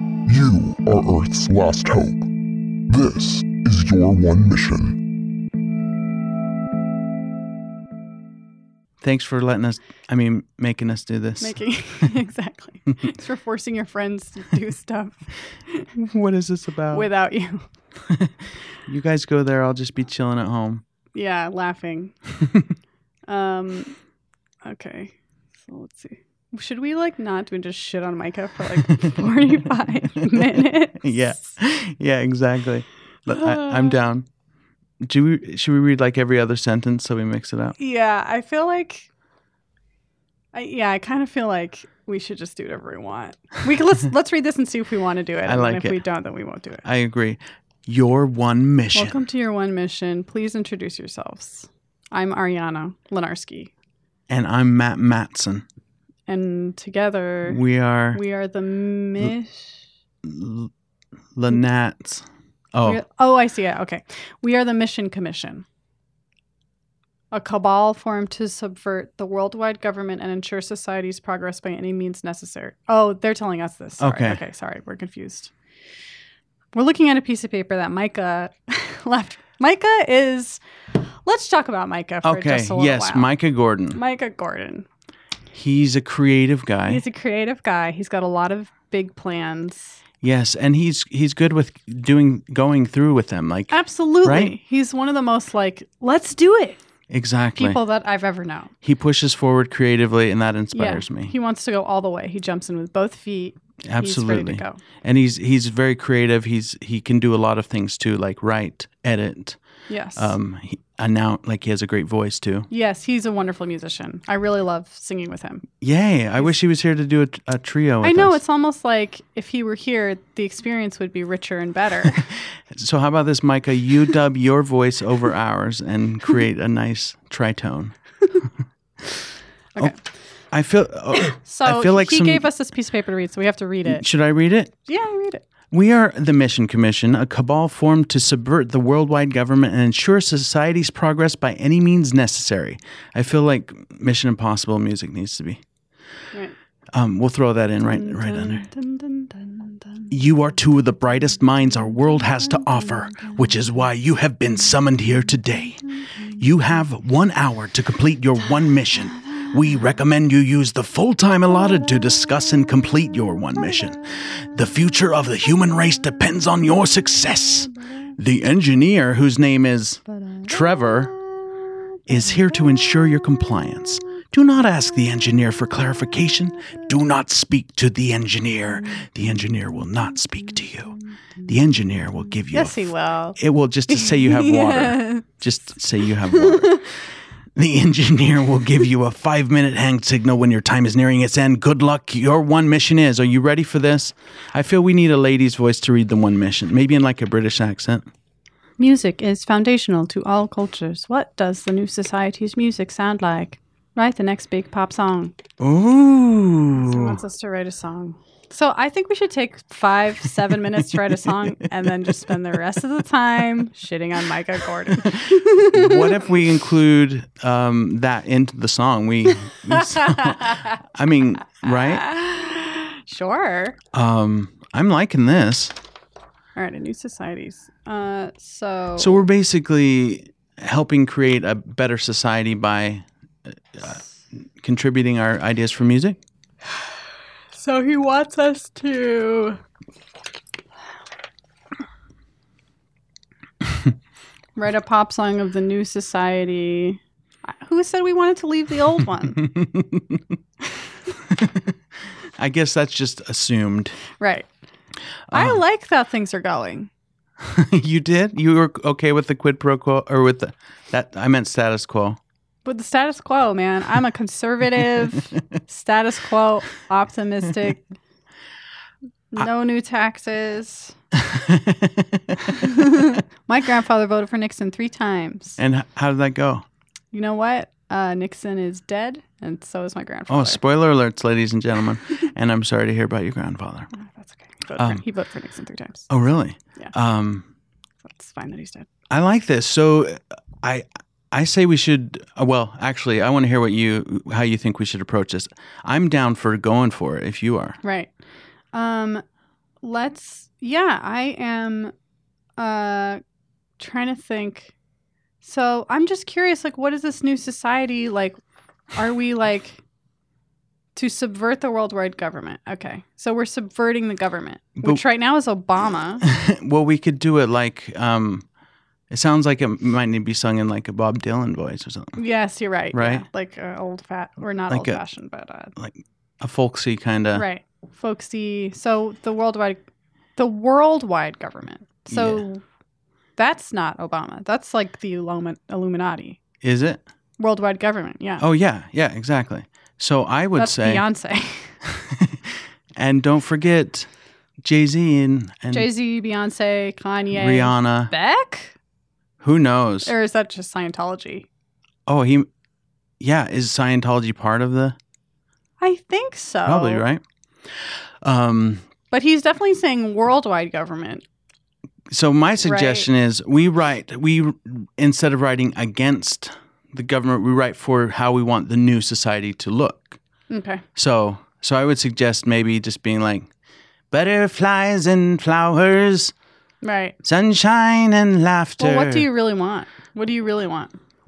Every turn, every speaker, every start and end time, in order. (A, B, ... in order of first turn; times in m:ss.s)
0:00.3-0:02.3 A
0:02.9-0:05.0 A
0:09.0-0:11.6 B
0:11.4-0:15.9 C
0:16.0-0:17.1 B
0:16.9-0:17.6 C
0:18.9-0:20.8 B
0:21.1-0:22.1 C
0:23.3-0:24.0 C
0:24.6-0:31.5 C
0:31.0-0:34.3 B
0:33.3-0:34.0 C
0:35.0-0:37.8 B
0:37.8-0:39.1 C
0:40.5-0:46.8 C
0:45.4-0:46.0 B
0:46.8-0:49.2 B
0:48.9-0:53.7 C
0:54.3-0:55.6 B
0:56.3-0:57.6 C
0:57.5-0:58.2 B
0:58.1-0:59.8 C
1:00.2-1:00.7 B
1:01.4-1:03.0 B
1:02.8-1:05.6 C
1:07.3-1:15.5 C
1:14.0-1:14.4 B
1:16.7-1:20.6 C
1:21.2-1:23.3 C
1:22.2-1:24.0 B
1:23.9-1:24.9 C
1:25.5-1:27.0 B
1:26.9-1:30.0 C
1:30.2-1:34.6 B
1:33.7-1:36.8 C
1:37.1-1:37.8 B
1:37.6-1:38.7 C
1:38.8-1:41.3 B
1:40.7-1:44.8 C
1:43.8-1:49.6 B
1:49.9-1:50.4 C
1:50.2-1:52.7 B
1:52.7-1:55.6 C
1:55.8-1:58.4 B
1:58.0-2:02.3 C
2:02.8-2:08.0 B
2:10.5-2:12.4 B
2:11.3-2:14.0 C
2:13.9-2:14.8 B
2:14.9-2:15.4 C
2:15.7-2:25.6 B
2:26.9-2:28.6 B
2:27.8-2:30.1 C
2:30.1-2:35.8 B
2:32.0-2:33.4 C
2:36.4-2:51.1 B
2:50.2-2:50.5 C
2:52.1-3:01.0 B
3:01.5-3:02.8 B
3:02.5-3:05.4 C
3:03.4-3:06.9 B
3:07.6-3:18.1 B
3:18.8-3:25.4 C
3:25.6-3:27.2 B
3:26.8-3:36.2 C
3:35.4-3:42.1 B
3:40.0-3:40.7 C
3:41.6-3:43.8 C
3:43.9-3:45.7 B
3:46.6-3:49.2 C
3:49.0-3:54.0 B
3:54.6-3:56.2 B
3:57.5-3:59.6 C
4:04.6-4:09.4 C
4:09.4-4:10.2 B
4:11.3-4:11.7 B
4:12.4-4:14.0 B
4:14.2-4:14.5 C
4:15.3-4:15.6 B
4:15.3-4:16.9 C
4:17.4-4:22.2 B
4:22.6-4:27.8 C
4:29.3-4:31.0 C
4:31.2-4:32.6 B
4:32.6-4:35.6 C
4:35.6-4:36.6 B
4:37.1-4:40.6 C
4:40.3-4:43.9 B
4:43.9-4:46.1 C
4:46.1-4:47.5 B
4:48.0-4:48.9 C
4:49.1-4:57.8 B
4:57.8-4:58.1 C
4:58.7-4:59.2 C
4:59.8-5:01.9 C
5:02.6-5:03.2 C
5:03.8-5:04.7 C
5:05.4-5:08.4 C
5:09.0-5:09.8 C
5:11.0-5:16.2 C
5:16.3-5:18.5 B
5:19.1-5:22.2 B
5:22.2-5:25.7 C
5:22.9-5:23.2 B
5:24.7-5:25.0 B
5:25.8-5:27.5 B
5:27.3-5:29.8 C
5:30.4-5:32.6 C
5:32.1-5:32.4 B
5:33.4-5:36.4 C
5:36.6-5:37.0 B
5:37.4-5:38.4 C
5:38.4-5:41.0 B
5:40.6-5:41.8 C
5:41.9-5:44.1 B
5:44.6-5:45.9 B
5:45.7-5:48.7 C
5:47.3-5:48.1 B
5:49.4-5:50.1 B
5:50.0-5:51.5 C
5:52.1-5:52.5 B
5:53.2-5:55.0 B
5:55.8-5:57.0 C
5:56.7-5:57.2 B
5:58.2-5:58.8 B
5:59.1-6:01.2 C
6:02.1-6:10.2 B
6:02.6-6:03.1 C
6:10.5-6:10.8 C
6:11.0-6:13.5 B
6:14.1-6:16.3 B
6:16.8-6:17.2 C
6:17.2-6:19.3 B
6:18.8-6:21.0 C